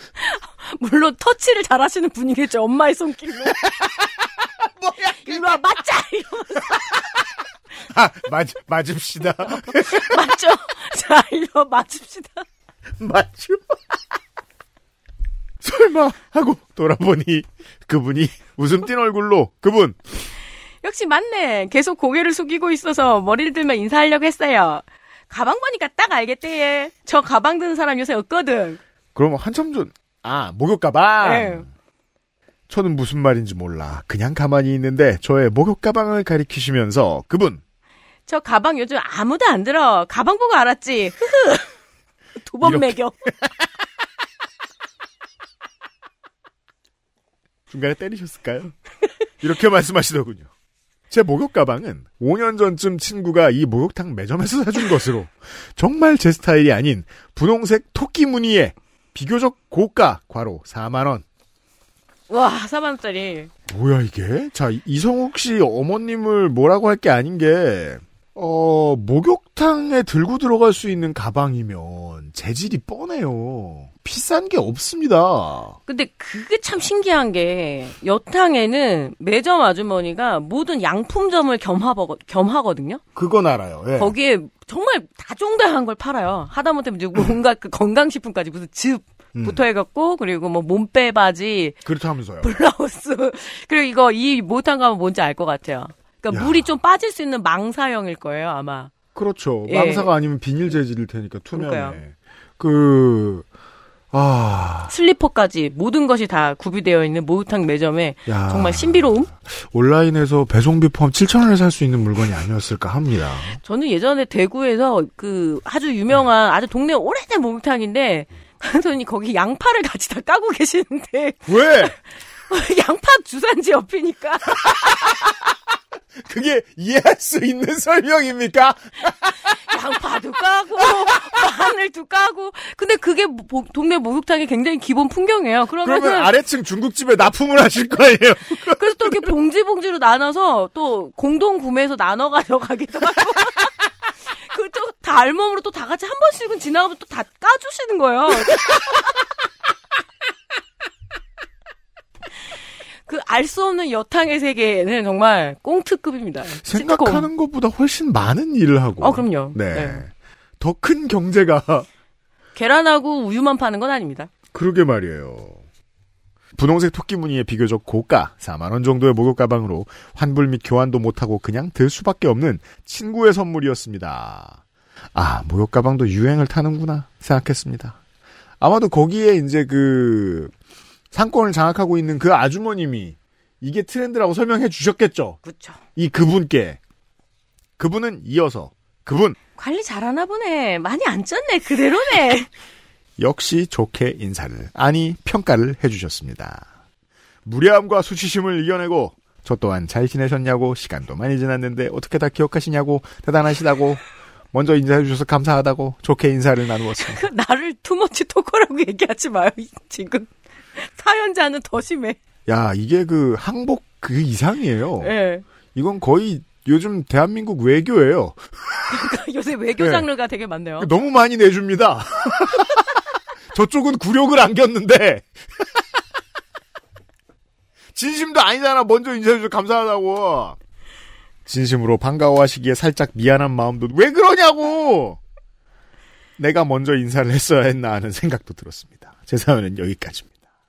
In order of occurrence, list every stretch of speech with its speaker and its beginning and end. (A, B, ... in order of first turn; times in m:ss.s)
0:00.2-0:03.7 A
0:03.6-0:05.6 B
0:05.1-0:06.8 A
0:07.9-0:10.2 B
0:09.5-0:12.4 A
0:13.0-0:13.8 B
0:15.6-0:20.0 B
0:20.8-0:28.8 A
0:29.1-0:31.7 B
0:31.2-0:31.6 A
0:32.7-0:37.6 B
0:38.3-0:41.7 A
0:42.4-0:43.1 A
0:42.6-0:43.6 B
0:47.7-0:48.7 B
0:49.4-0:50.5 B
0:51.1-1:01.2 B
1:02.3-1:03.5 A
1:03.7-1:15.8 B
1:15.9-1:23.0 A
1:23.1-1:24.1 B
1:24.0-1:31.8 A
1:29.3-1:29.6 B
1:31.8-1:32.5 B
1:32.4-1:38.9 A
1:36.3-1:36.7 B
1:39.1-1:43.4 B
1:39.7-1:40.1 A
1:41.5-1:42.0 A
1:44.1-1:44.9 B
1:44.9-1:49.3 A
1:48.2-1:53.6 B
1:53.6-2:01.8 A
2:01.4-2:02.0 B
2:02.5-2:05.1 A
2:06.2-2:09.7 B
2:09.7-2:16.3 A
2:15.8-2:19.3 B
2:18.7-2:23.7 A
2:24.4-2:29.0 A
2:33.1-2:37.3 A
2:36.6-2:41.9 B
2:39.0-2:40.0 A
2:42.5-2:44.3 A
2:44.5-2:45.6 B
2:46.6-2:54.6 B
2:55.1-2:58.0 B
2:58.6-3:00.5 B
3:01.1-3:05.4 B
3:05.4-3:05.8 A
3:06.0-3:06.8 B
3:07.8-3:09.4 B
3:09.6-3:12.5 A
3:13.2-3:16.6 B
3:17.4-3:27.2 B
3:27.0-3:32.2 A
3:32.5-3:35.1 B
3:35.0-3:35.4 A
3:35.7-3:38.9 B
3:38.9-3:40.9 A
3:39.8-3:40.1 B
3:40.8-3:43.0 B
3:43.5-3:45.8 B
3:47.9-3:50.6 B
3:51.4-3:55.2 B
3:56.4-4:00.3 B